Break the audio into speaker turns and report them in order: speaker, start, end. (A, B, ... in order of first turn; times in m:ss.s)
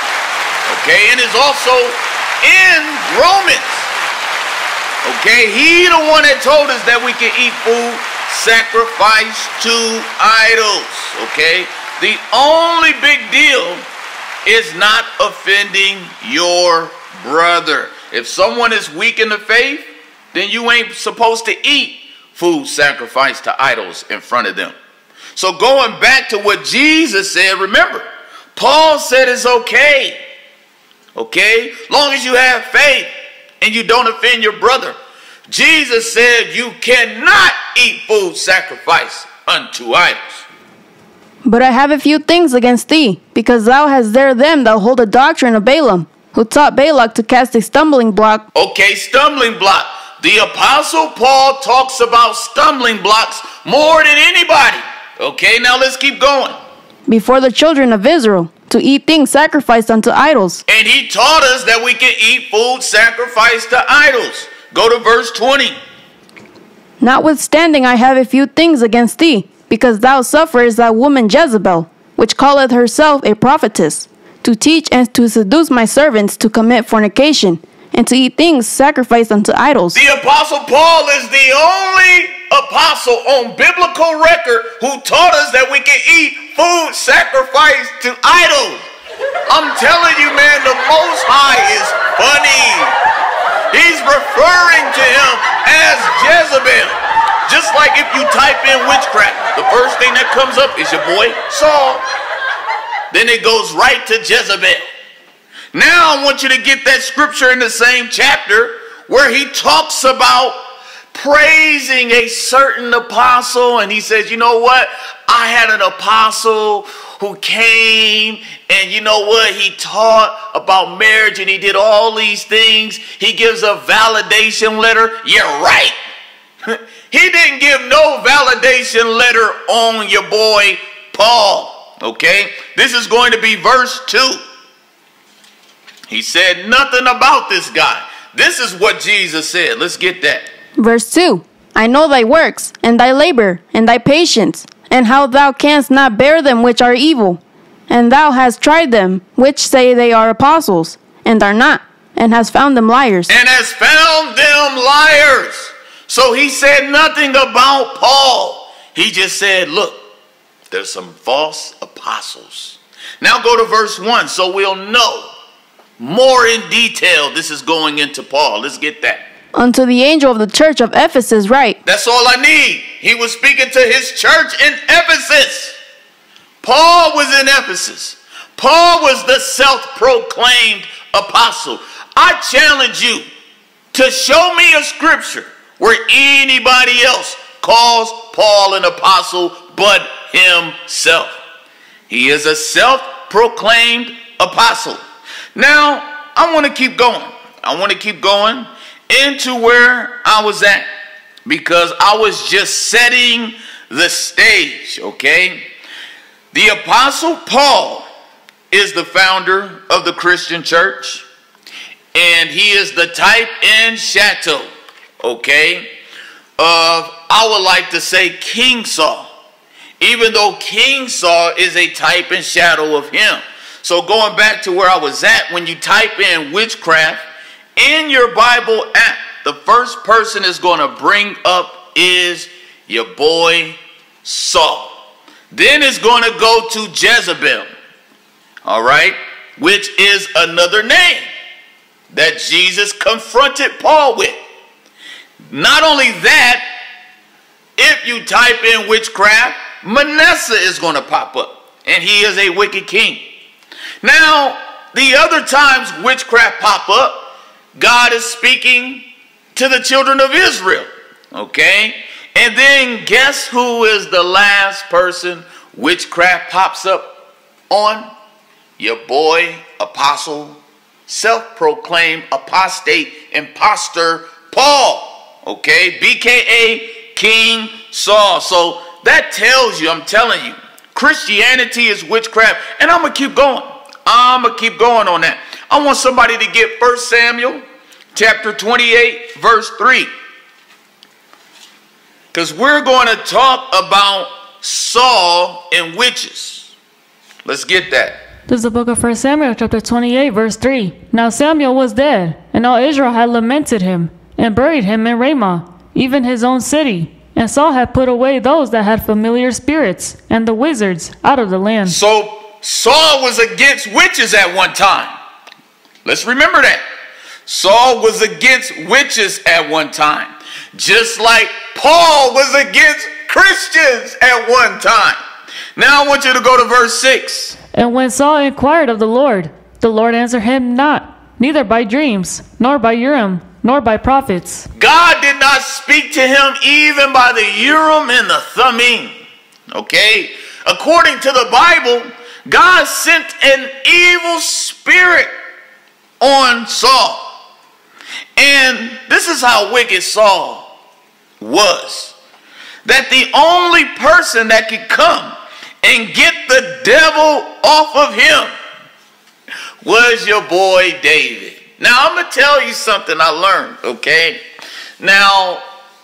0:00.7-0:03.9 A
0:05.0-0:13.8 A
0:14.4-0:24.7 A
0:25.3-0:28.0 A
0:28.6-0:30.2 A
0:31.1-0:35.0 A
0:35.5-0:40.4 A
0:41.4-0:48.4 B
0:48.5-0:56.6 A
0:57.1-1:00.6 B
1:00.7-1:05.8 A
1:07.0-1:20.0 B
1:19.9-1:28.8 A
1:29.5-1:32.9 A
1:33.7-1:42.0 A
1:43.1-1:44.8 A
1:45.7-1:50.6 A
1:51.1-2:06.0 A
2:06.6-2:14.4 A
2:16.1-2:20.5 A
2:20.8-2:33.3 B
2:33.3-2:40.0 A
2:40.7-2:45.3 A
2:46.0-2:49.2 A
2:49.5-2:51.8 B
2:51.8-2:55.8 A
2:56.6-3:03.2 A
3:03.9-3:11.4 A
3:12.1-3:15.0 A
3:15.5-3:20.8 A
3:21.4-3:25.6 A
3:26.5-3:28.0 A
3:28.7-3:31.2 A
3:32.1-3:34.7 A
3:35.2-3:35.9 A
3:36.6-3:39.3 A
3:40.0-3:47.2 A
3:47.8-3:54.9 A
3:55.5-3:57.7 A
3:58.6-4:01.2 A
4:02.1-4:04.4 A
4:05.5-4:06.6 A
4:07.8-4:13.2 A
4:14.0-4:19.0 A
4:19.5-4:27.1 A
4:27.7-4:28.1 A
4:28.8-4:47.6 A
4:48.1-4:50.1 A
4:52.3-4:56.7 A
4:57.4-4:58.2 A
4:58.5-5:12.0 C
5:11.8-5:15.2 A
5:16.0-5:16.8 A
5:17.4-5:25.2 A
5:25.8-5:27.6 A
5:27.7-5:34.7 C
5:34.8-5:39.2 A
5:39.7-5:45.3 A
5:46.2-5:47.3 A
5:48.4-5:50.7 A
5:51.4-5:52.1 A
5:52.8-5:58.5 A
5:59.8-6:04.4 A
6:05.0-6:05.6 A